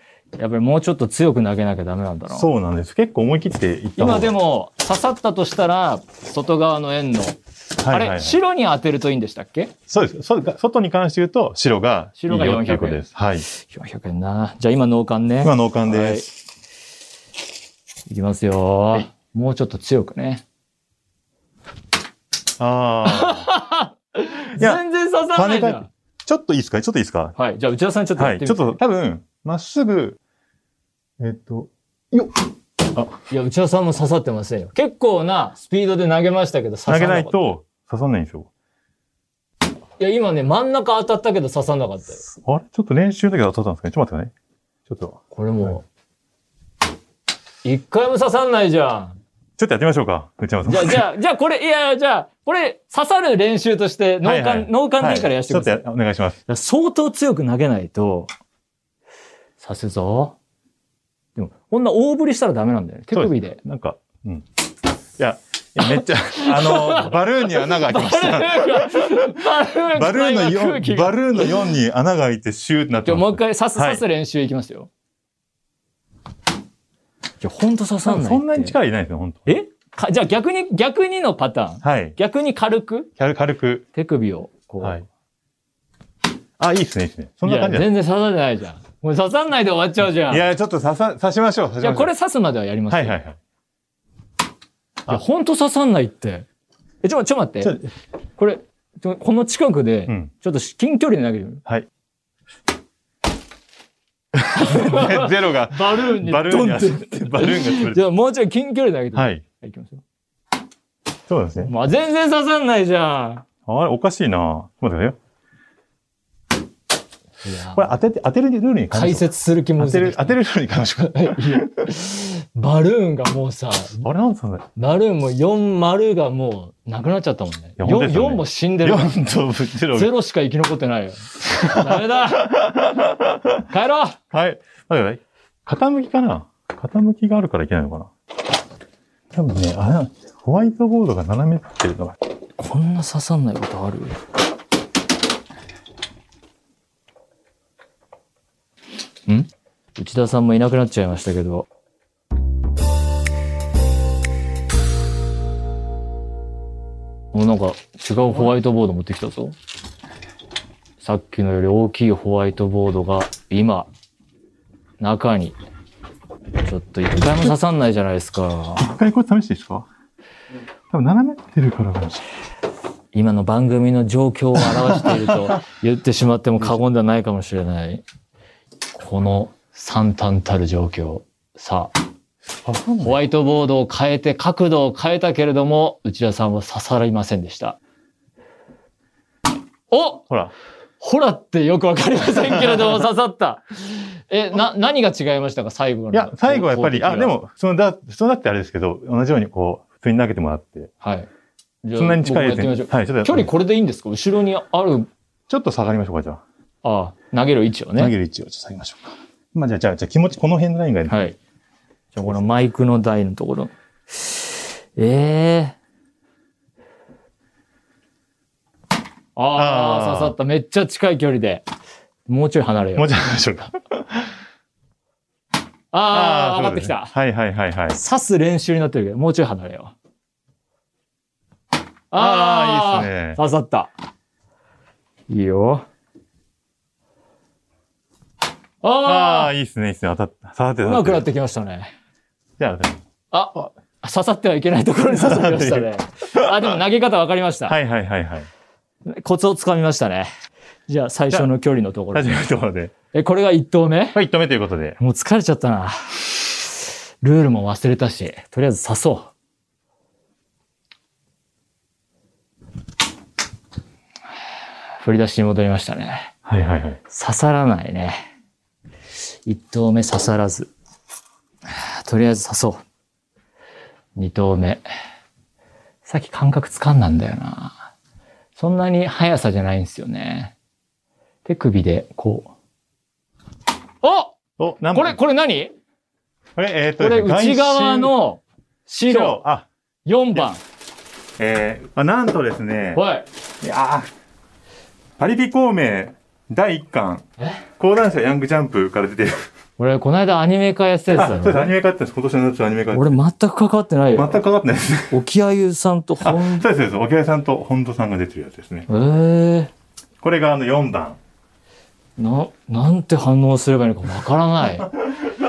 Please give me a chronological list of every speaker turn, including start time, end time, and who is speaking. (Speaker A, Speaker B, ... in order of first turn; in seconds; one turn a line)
Speaker A: 0.4-2.5
Speaker B: 2.3-4.3
Speaker A: 4.0-9.7
Speaker B: 7.8-8.4
Speaker B: 9.9-13.5
Speaker A: 12.2-16.3
Speaker B: 15.4-16.3
Speaker A: 18.1-20.4
Speaker B: 22.6-23.5
Speaker A: 23.1-25.9
Speaker B: 24.6-24.8
Speaker B: 25.3-27.4
Speaker A: 27.4-28.8
Speaker B: 28.2-30.2
Speaker B: 31.2-32.4
Speaker A: 33.1-37.4
Speaker B: 36.9-38.5
Speaker A: 40.0-42.2
Speaker B: 42.3-44.3
Speaker B: 44.9-45.2
Speaker A: 45.3-45.9
Speaker A: 47.6-49.2
Speaker B: 49.6-51.0
Speaker A: 50.7-55.8
Speaker B: 54.2-56.4
Speaker A: 56.5-58.3
Speaker A: 59.6-60.4
Speaker A: 61.4-63.6
Speaker B: 63.1-64.5
Speaker B: 65.2-74.0
Speaker A: 66.3-71.7
Speaker A: 73.0-74.9
Speaker A: 77.4-78.8
Speaker B: 78.1-79.5
Speaker A: 79.5-83.1
Speaker B: 81.8-82.2
Speaker B: 83.2-83.8
Speaker A: 83.9-85.0
Speaker B: 86.6-87.9
Speaker A: 87.4-90.5
Speaker B: 90.3-92.1
Speaker A: 91.8-93.2
Speaker B: 92.9-93.4
Speaker A: 95.1-96.5
Speaker A: 97.0-97.8
Speaker A: 98.4-101.6
Speaker B: 104.3-108.0
Speaker A: 104.5-110.0
Speaker B: 109.2-109.4
Speaker B: 111.3-111.7
Speaker A: 111.6-113.5
Speaker B: 113.7-115.2
Speaker A: 117.4-117.9
Speaker B: 117.8-121.9
Speaker A: 118.9-120.4
Speaker A: 121.1-124.0
Speaker B: 124.0-124.7
Speaker A: 124.8-129.2
Speaker B: 127.8-130.1
Speaker A: 129.9-132.8
Speaker B: 131.5-133.6
Speaker A: 133.7-134.2
Speaker B: 134.3-138.1
Speaker B: 139.3-142.2
Speaker A: 142.6-144.2
Speaker A: 149.3-151.7
Speaker A: 157.3-159.6
Speaker A: 161.0-163.9
Speaker A: 165.0-165.6
Speaker A: 166.6-168.9
Speaker B: 168.8-169.9
Speaker B: 170.9-172.2
Speaker A: 173.1-178.0
Speaker B: 174.9-175.6
Speaker A: 179.0-181.9
Speaker B: 182.6-183.2
Speaker A: 183.0-187.8
Speaker A: 189.9-190.2
Speaker A: 191.0-197.3
Speaker B: 196.1-200.9
Speaker A: 201.0-201.3
Speaker A: 201.8-205.1
Speaker B: 202.0-203.5
Speaker B: 205.5-206.4
Speaker A: 206.8-208.1
Speaker B: 208.0-211.2
Speaker A: 211.1-211.4
Speaker A: 212.1-215.8
Speaker A: 219.4-221.6
Speaker B: 219.6-220.3
Speaker A: 222.3-223.2
Speaker B: 223.0-224.3
Speaker A: 225.9-227.1
Speaker B: 226.1-228.0
Speaker A: 227.9-229.9
Speaker A: 232.1-233.9
Speaker B: 232.1-233.4
Speaker A: 235.3-235.9
Speaker A: 238.8-239.5
Speaker B: 239.0-241.2
Speaker A: 240.8-241.9
Speaker B: 242.6-243.0
Speaker A: 243.3-247.8
Speaker B: 245.1-246.8
Speaker B: 247.7-248.5
Speaker A: 249.1-250.3
Speaker A: 250.9-252.4
Speaker B: 252.1-252.9
Speaker A: 253.1-254.2
Speaker B: 254.1-255.0
Speaker A: 255.0-259.3
Speaker A: 265.0-266.3
Speaker B: 266.4-267.0
Speaker A: 267.1-268.2
Speaker A: 269.5-270.7
Speaker A: 271.7-272.8
Speaker A: 274.2-274.8
Speaker A: 276.1-277.8
Speaker A: 278.6-280.5
Speaker A: 281.4-282.5
Speaker A: 284.0-284.3
Speaker B: 284.6-285.2
Speaker A: 284.9-285.7
Speaker B: 286.6-288.1
Speaker A: 287.0-289.4
Speaker B: 289.1-289.7
Speaker A: 290.1-290.6
Speaker B: 291.4-293.0
Speaker A: 292.9-293.2
Speaker B: 293.6-294.1
Speaker B: 295.2-297.2
Speaker B: 297.8-299.5
Speaker A: 299.8-301.7
Speaker B: 301.1-303.2
Speaker A: 302.9-304.4
Speaker B: 304.1-305.1
Speaker A: 305.1-306.7
Speaker B: 306.2-308.9
Speaker A: 308.9-309.7
Speaker B: 310.2-311.2
Speaker A: 312.2-314.9